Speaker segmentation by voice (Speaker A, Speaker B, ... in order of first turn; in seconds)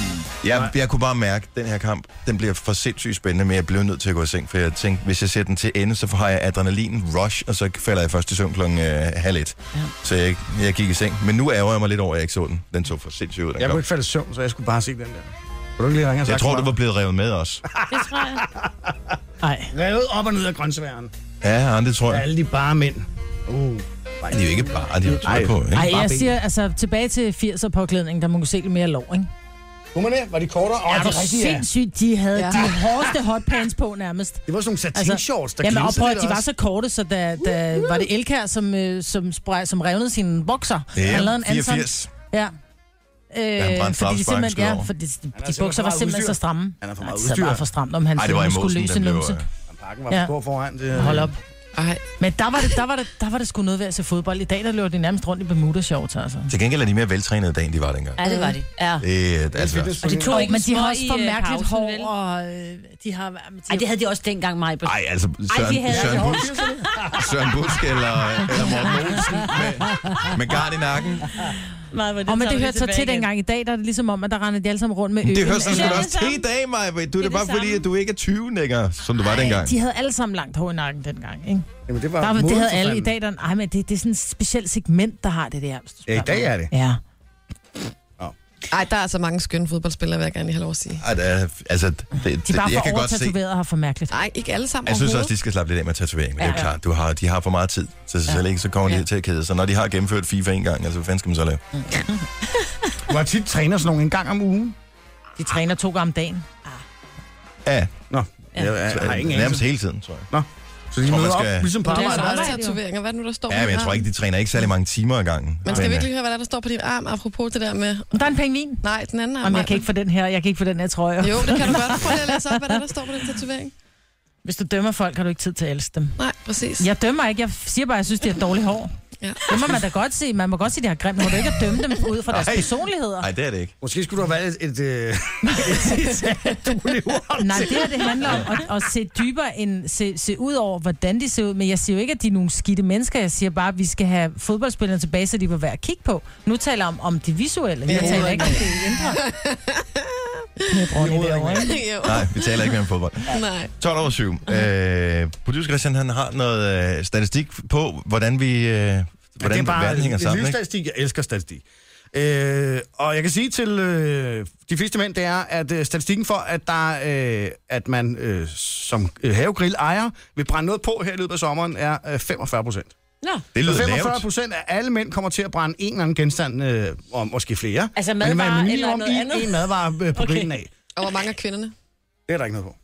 Speaker A: 0.4-13.8, 16.2-17.6, 21.4-22.2, 24.3-25.9, 40.9-42.1, 43.6-44.9, 48.1-49.5, 56.5-58.2, 59.0-60.0, 64.8-66.5, 67.1-71.3, 75.2-79.7, 91.0-93.3, 94.8-101.6, 107.6-107.9, 108.8-110.3, 111.0-111.8, 113.5-116.1, 132.3-133.7, 152.0-160.6, 173.5-174.3
Speaker B: 13.6-16.7, 17.7-19.2, 19.7-21.1, 22.1-26.4, 29.9-31.6, 32.4-33.1, 34.5-36.5, 45.4-47.6, 49.7-51.3, 59.5-60.5, 65.9-67.3, 81.9-83.1, 86.1-86.7, 103.0-104.7, 108.1-109.6, 110.3-112.6, 133.8-138.7, 147.9-148.6, 150.9-151.8, 159.4-172.9, 173.6-180.7, 182.3-182.8
Speaker C: 17.9-18.4, 58.2-59.0, 60.0-62.1, 63.7-67.2, 68.5-69.0, 71.9-73.3, 75.7-76.4, 77.2-77.8, 96.4-96.7, 98.3-99.0, 111.9-112.6, 148.0-148.6, 177.9-180.5
Speaker D: 19.4-19.7, 25.7-29.3, 30.9-42.5, 43.3-49.4, 50.9-51.4, 52.2-56.5, 60.2-63.9, 72.3-76.1, 79.4-81.7, 82.2-87.0, 92.5-94.2, 105.4-106.6, 111.9-112.8, 118.1-118.8, 119.4-122.8, 124.4-126.2, 126.8-128.9, 129.4-133.3, 135.5-135.9, 137.4-149.2, 150.7-151.8
Speaker E: 51.8-52.0, 88.7-91.0, 94.1-95.3, 111.9-114.1, 115.6-118.2, 118.8-119.8, 121.2-123.7, 126.2-126.9, 147.9-150.0, 151.7-152.7, 153.3-153.7, 180.9-181.7